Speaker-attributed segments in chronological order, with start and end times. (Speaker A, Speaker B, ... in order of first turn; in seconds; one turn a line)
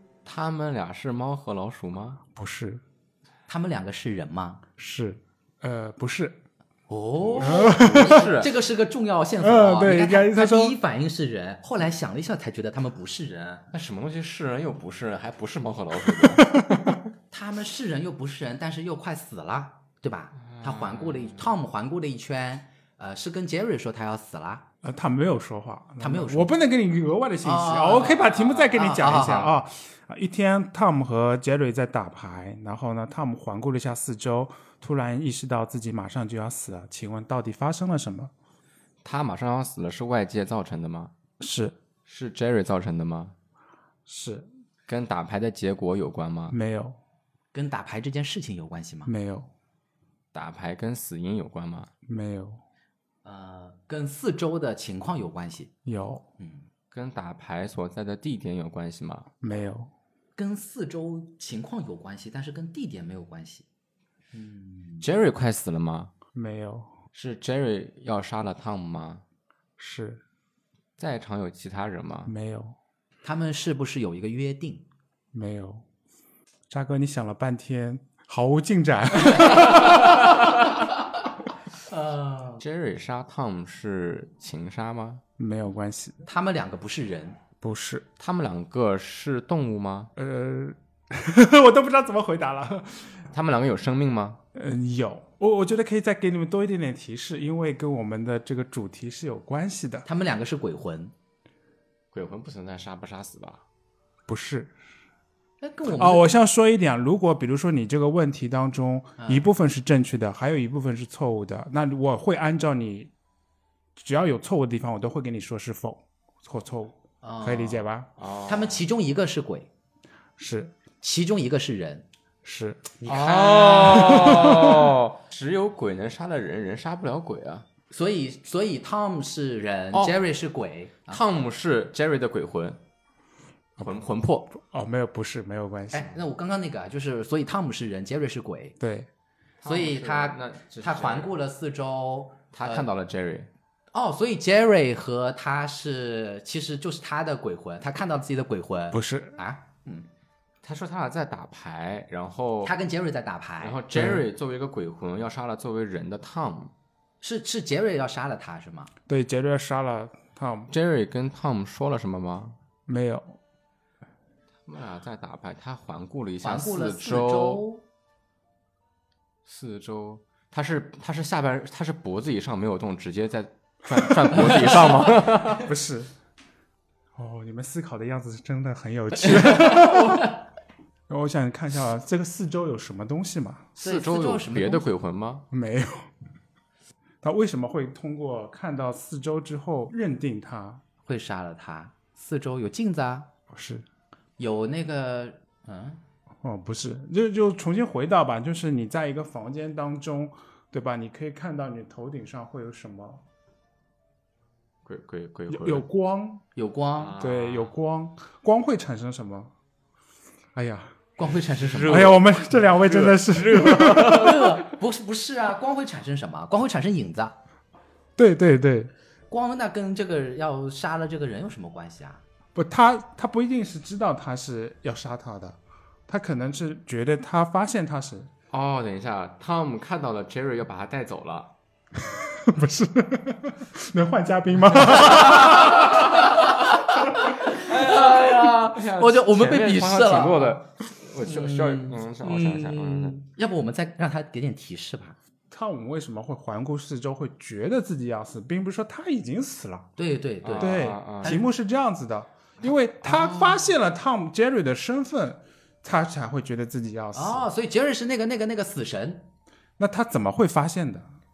Speaker A: 0.2-2.2
Speaker B: 2.4-2.8
Speaker C: 3.5-4.6
Speaker B: 4.8-6.4
Speaker C: 6.9-13.7
Speaker A: 7.2-8.5
Speaker B: 7.4-8.3
Speaker B: 9.4-10.8
Speaker A: 13.7-16.5
Speaker B: 16.1-17.0
Speaker C: 17.3-24.6
Speaker A: 20.5-21.5
Speaker B: 24.8-38.3
Speaker C: 26.0-26.5
Speaker C: 27.4-29.5
Speaker A: 28.4-28.7
Speaker A: 39.0-41.1
Speaker B: 41.4-41.8
Speaker A: 42.1-43.3
Speaker B: 44.1-44.5
Speaker A: 44.9-46.6
Speaker B: 46.5-47.0
Speaker C: 47.5-49.1
Speaker B: 49.1-49.5
Speaker A: 50.3-51.9
Speaker B: 52.1-52.6
Speaker C: 53.2-55.7
Speaker B: 55.9-56.2
Speaker C: 56.4-56.6
Speaker A: 56.9-59.3
Speaker B: 59.4-59.9
Speaker C: 60.4-63.6
Speaker C: 64.3-65.1
Speaker A: 65.0-66.1
Speaker B: 66.3-66.9
Speaker A: 67.1-69.2
Speaker B: 69.8-70.2
Speaker A: 71.0-72.3
Speaker B: 72.3-72.8
Speaker C: 73.2-74.8
Speaker B: 75.3-75.8
Speaker B: 76.7-80.4
Speaker C: 81.9-82.6
Speaker A: 82.6-85.2
Speaker B: 85.4-86.2
Speaker C: 86.3-87.4
Speaker B: 87.6-88.0
Speaker A: 88.2-90.1
Speaker B: 90.2-93.3
Speaker A: 93.3-94.4
Speaker B: 94.5-100.1
Speaker C: 100.0-101.1
Speaker A: 102.1-103.6
Speaker B: 104.3-104.7
Speaker C: 105.6-106.3
Speaker B: 106.0-113.1
Speaker C: 109.2-109.4
Speaker B: 114.0-118.1
Speaker C: 117.2-117.8
Speaker A: 118.2-118.8
Speaker C: 118.5-119.7
Speaker B: 120.4-120.7
Speaker C: 121.0-122.1
Speaker B: 122.4-123.0
Speaker C: 123.0-124.7
Speaker A: 123.0-127.7
Speaker B: 123.9-124.9
Speaker C: 127.9-131.2
Speaker A: 131.1-132.8
Speaker A: 133.8-134.5
Speaker B: 134.6-136.1
Speaker C: 135.9-138.8
Speaker B: 138.8-139.1
Speaker A: 139.6-141.3
Speaker C: 139.7-142.9
Speaker A: 142.5-143.5
Speaker C: 143.9-150.1
Speaker B: 148.9-149.4
Speaker A: 150.6-152.7
Speaker C: 152.6-153.8
Speaker A: 153.6-156.7
Speaker B: 153.9-154.2
Speaker C: 157.2-158.9
Speaker B: 159.1-160.7
Speaker A: 160.7-162.6
Speaker B: 162.9-163.4
Speaker A: 164.7-167.6
Speaker C: 166.4-167.8
Speaker A: 169.5-175.7
Speaker B: 175.5-176.1
Speaker B: 177.2-180.3
Speaker C: 179.3-180.3
Speaker B: 181.1-183.7
Speaker A: 183.8-185.4
Speaker C: 183.8-184.8
Speaker B: 185.5-186.1
Speaker B: 187.2-190.8
Speaker C: 191.1-193.3
Speaker B: 193.5-193.8
Speaker C: 194.4-196.0
Speaker B: 196.4-203.2
Speaker A: 204.8-205.8
Speaker B: 205.5-206.4
Speaker C: 206.6-207.1
Speaker A: 207.0-207.7
Speaker B: 207.2-209.5
Speaker B: 210.6-210.9
Speaker C: 211.2-212.2
Speaker A: 211.6-214.6
Speaker B: 211.9-214.5
Speaker C: 213.9-217.4
Speaker B: 218.2-218.9
Speaker C: 219.3-222.2
Speaker B: 222.6-228.3
Speaker A: 228.5-231.5
Speaker B: 232.3-235.9
Speaker C: 235.1-240.6
Speaker A: 235.1-235.6
Speaker A: 237.5-243.2
Speaker C: 241.2-245.2
Speaker B: 245.5-249.9
Speaker C: 250.0-251.5
Speaker A: 250.4-251.4
Speaker B: 250.6-257.5
Speaker C: 253.0-253.6
Speaker C: 257.1-259.3
Speaker B: 259.8-261.1